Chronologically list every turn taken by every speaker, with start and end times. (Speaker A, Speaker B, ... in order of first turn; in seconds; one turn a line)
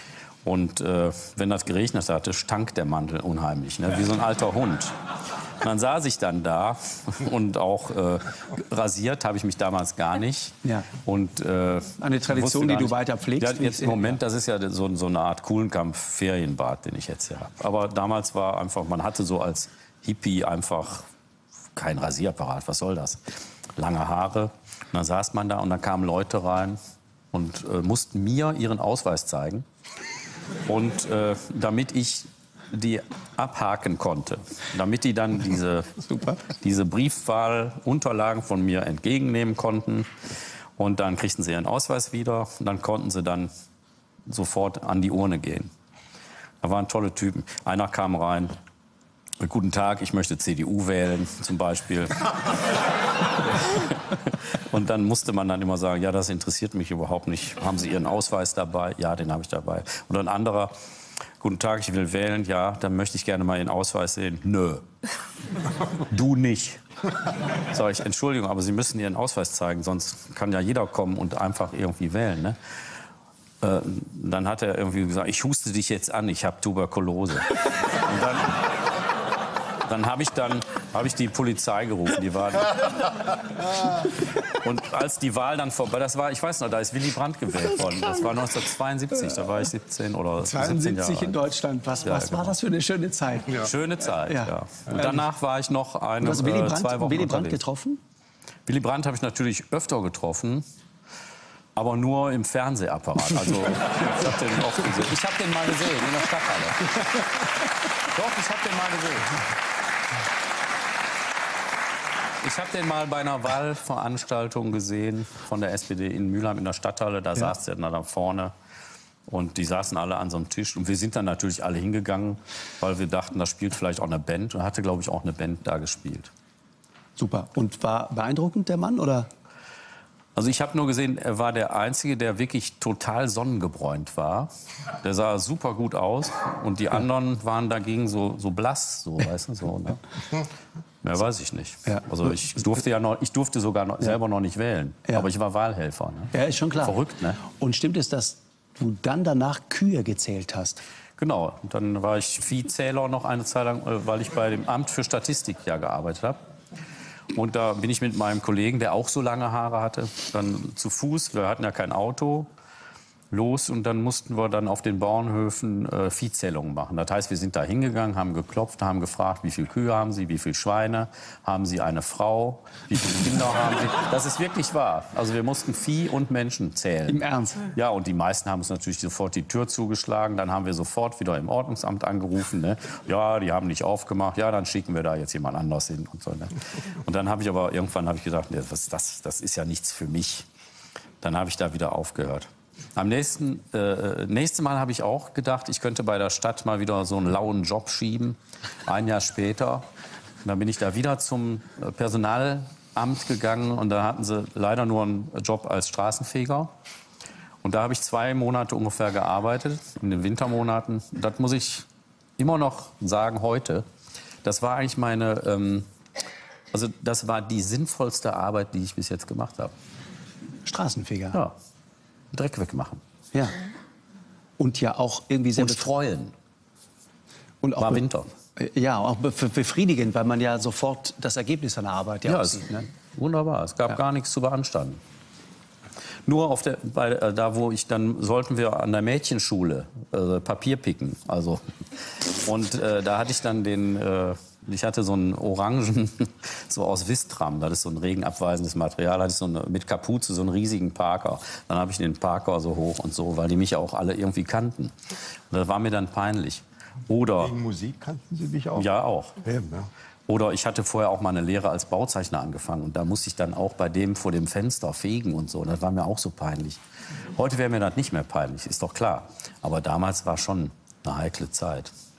Speaker A: 0.4-21.1
Speaker B: 12.0-14.2
Speaker A: 21.8-26.8
Speaker A: 27.3-29.7
Speaker A: 30.7-40.1
Speaker B: 36.0-36.4
Speaker A: 40.8-43.5
Speaker A: 44.3-45.7
Speaker A: 46.6-48.5
Speaker A: 49.4-52.8
Speaker A: 53.4-60.7
Speaker A: 61.4-64.9
Speaker A: 65.9-66.8
Speaker A: 67.6-72.6
Speaker A: 73.6-78.7
Speaker A: 79.8-83.3
Speaker A: 84.0-91.4
Speaker B: 90.4-95.2
Speaker A: 92.0-92.6
Speaker A: 93.5-97.6
Speaker B: 96.2-98.0
Speaker A: 98.7-100.7
Speaker A: 101.8-107.0
Speaker A: 108.0-109.4
Speaker A: 112.4-118.5
Speaker A: 119.3-126.3
Speaker B: 127.2-129.3
Speaker A: 130.4-134.5
Speaker A: 135.0-140.0
Speaker A: 141.0-147.4
Speaker B: 146.3-150.8
Speaker A: 151.2-156.4
Speaker A: 157.3-162.5
Speaker A: 163.3-190.5
Speaker B: 177.1-177.7
Speaker A: 191.2-199.9
Speaker A: 200.4-206.7
Speaker A: 207.6-211.9
Speaker A: 212.4-213.9
Speaker A: 214.4-215.9
Speaker A: 216.7-219.7
Speaker B: 220.7-221.4
Speaker A: 222.3-223.0
Speaker B: 224.6-225.9
Speaker A: 225.6-226.3
Speaker B: 227.6-228.0
Speaker A: 227.8-228.3
Speaker B: 228.6-232.9
Speaker A: 232.2-235.0
Speaker A: 236.3-254.9
Speaker A: 255.5-257.6
Speaker C: 257.4-258.9
Speaker A: 258.7-259.4
Speaker C: 259.4-259.9
Speaker A: 260.3-266.8
Speaker A: 267.4-271.9